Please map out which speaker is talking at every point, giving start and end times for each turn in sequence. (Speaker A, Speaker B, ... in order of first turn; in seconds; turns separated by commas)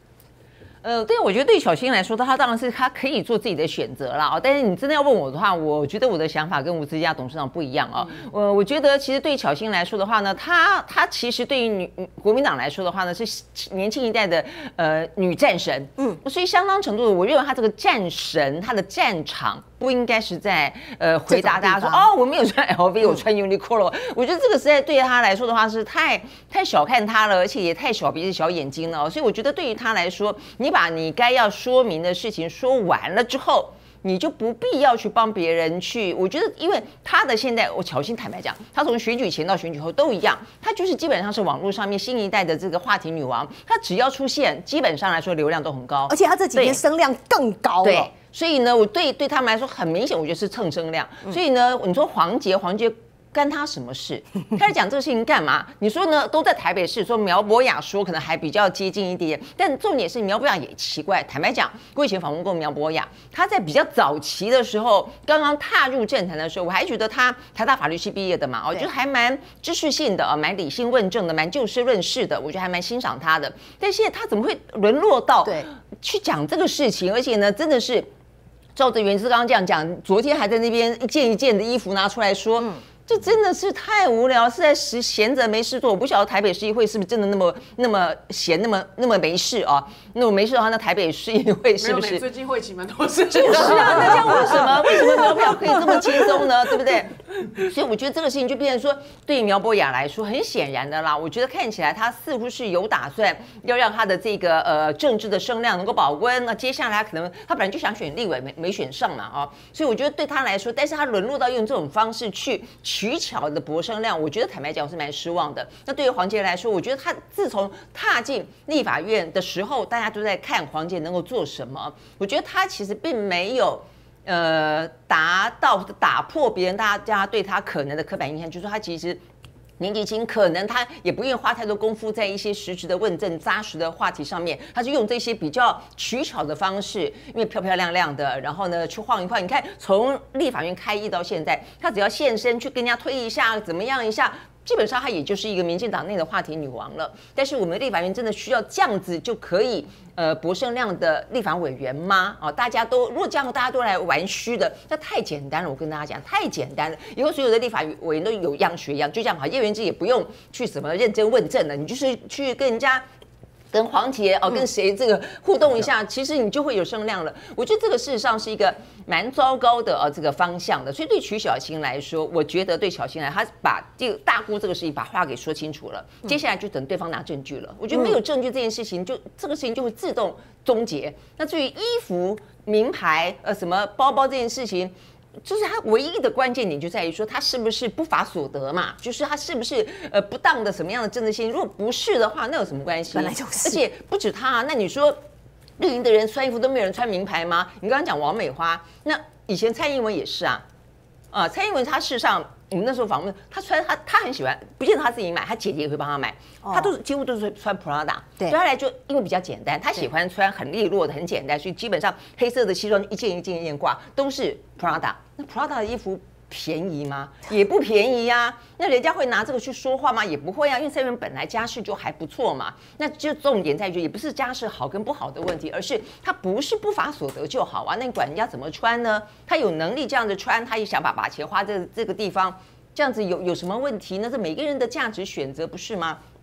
Speaker A: 0.8-46.8, Speaker B: 21.3-22.1, Speaker B: 46.1-48.1, Speaker A: 47.8-78.1, Speaker B: 75.5-75.7, Speaker A: 78.8-92.3, Speaker C: 91.8-97.0, Speaker A: 93.3-97.1, Speaker A: 97.7-129.2, Speaker A: 129.8-163.1, Speaker A: 163.7-195.2, Speaker B: 193.1-193.8, Speaker A: 195.8-200.6, Speaker A: 201.3-236.2, Speaker B: 206.6-206.9